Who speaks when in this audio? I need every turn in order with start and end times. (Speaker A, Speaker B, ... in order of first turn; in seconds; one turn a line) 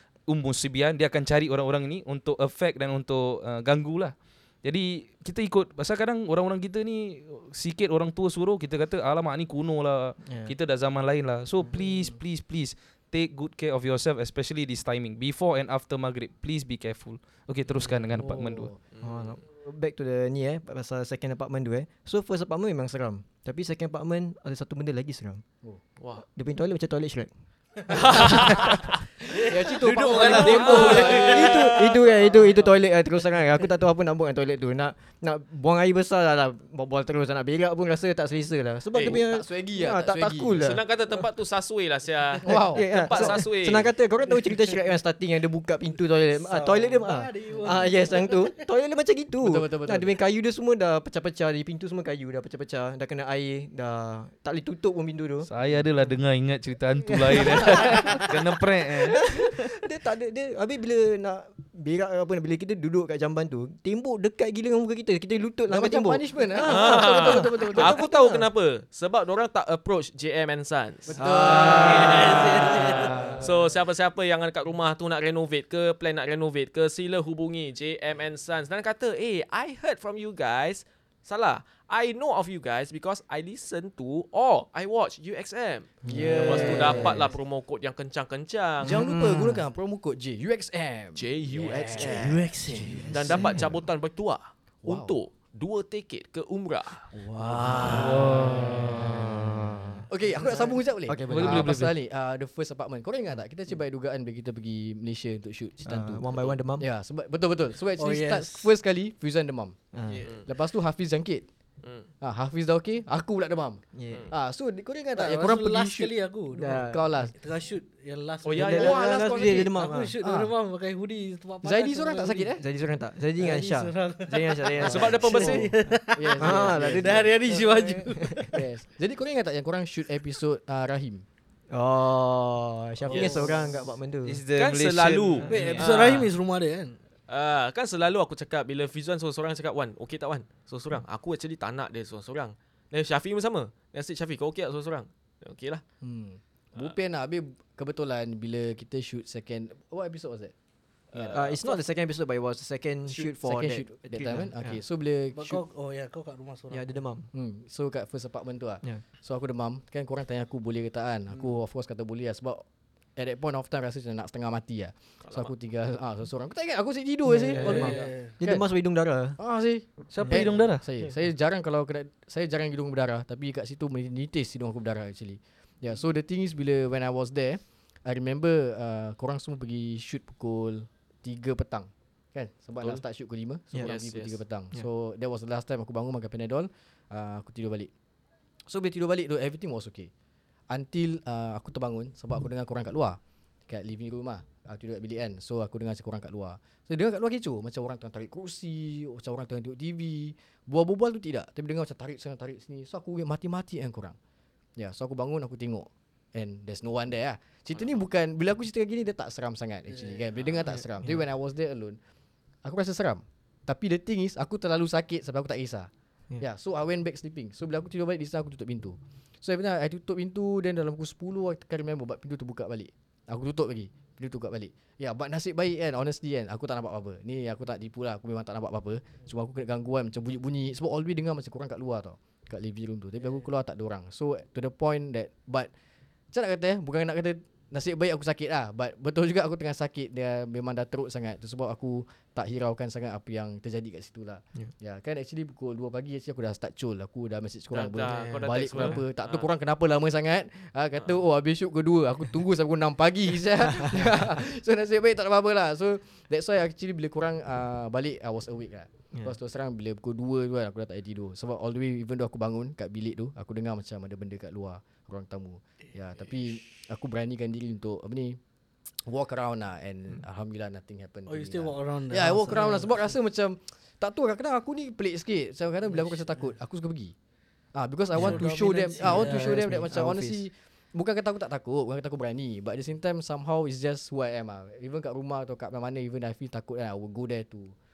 Speaker A: 0.3-18.7
Speaker B: 10.2-10.5
Speaker C: 11.7-12.2
Speaker C: 18.1-18.8
Speaker D: 18.9-19.3
Speaker B: 19.0-25.4
Speaker D: 26.0-26.2
Speaker B: 26.2-27.3
Speaker B: 27.9-28.8
Speaker D: 27.9-29.0
Speaker E: 29.2-31.7
Speaker C: 29.3-31.7
Speaker D: 30.1-32.0
Speaker B: 30.3-40.8
Speaker C: 39.0-40.7
Speaker D: 40.6-43.9
Speaker C: 42.4-43.4
Speaker B: 42.4-55.5
Speaker E: 46.4-48.5
Speaker C: 49.4-50.1
Speaker A: 55.5-59.2
Speaker B: 57.2-58.5
Speaker B: 59.0-68.5
Speaker C: 65.7-68.0
Speaker D: 66.6-71.2
Speaker C: 71.1-73.5
Speaker B: 71.2-73.5
Speaker E: 71.6-73.4
Speaker D: 71.7-72.8
Speaker D: 73.4-89.0
Speaker B: 86.0-87.3
Speaker C: 86.1-87.3
Speaker C: 88.8-93.7
Speaker B: 88.8-89.6
Speaker D: 91.2-92.4
Speaker E: 91.9-93.6
Speaker B: 92.8-93.6
Speaker D: 93.1-97.1
Speaker C: 94.8-95.1
Speaker C: 97.1-99.2
Speaker E: 97.4-98.5
Speaker B: 97.4-100.1
Speaker A: 97.9-99.2
Speaker C: 100.1-106.2
Speaker B: 101.0-101.8
Speaker A: 101.3-102.0
Speaker B: 105.8-106.9
Speaker C: 106.8-109.8
Speaker E: 108.0-108.7
Speaker B: 109.9-110.2
Speaker C: 110.4-111.5
Speaker D: 111.8-112.1
Speaker C: 112.2-117.3
Speaker B: 113.9-114.3
Speaker E: 115.2-122.5
Speaker B: 116.5-117.1
Speaker D: 118.4-119.2
Speaker B: 118.5-120.1
Speaker C: 118.7-120.5
Speaker C: 121.6-122.6
Speaker B: 122.6-125.5
Speaker E: 123.4-128.6
Speaker D: 124.8-125.7
Speaker C: 124.8-127.9
Speaker B: 126.4-128.6
Speaker C: 128.5-131.2
Speaker B: 131.7-134.4
Speaker D: 133.1-133.4
Speaker E: 133.1-133.6
Speaker A: 134.2-136.1
Speaker D: 134.6-136.3
Speaker E: 135.5-137.0
Speaker D: 137.3-145.8
Speaker C: 146.0-150.5
Speaker D: 151.1-151.8
Speaker B: 151.3-154.8
Speaker C: 153.1-155.6
Speaker E: 155.3-157.0
Speaker B: 156.7-157.3
Speaker C: 157.3-162.6
Speaker C: 163.2-168.6
Speaker D: 165.2-165.5
Speaker B: 167.2-169.4
Speaker E: 167.5-168.3
Speaker C: 169.4-187.9
Speaker A: 170.1-170.8
Speaker D: 183.8-184.4
Speaker C: 188.7-190.1
Speaker C: 190.7-204.2
Speaker C: 204.8-212.0
Speaker E: 209.9-210.7
Speaker C: 212.6-235.7
Speaker C: 236.3-268.4
Speaker D: 247.7-249.5
Speaker E: 247.9-248.5
Speaker B: 253.8-254.2
Speaker C: 269.0-277.1
Speaker E: 271.3-272.9
Speaker C: 277.7-287.7
Speaker E: 278.1-279.6
Speaker B: 278.1-280.5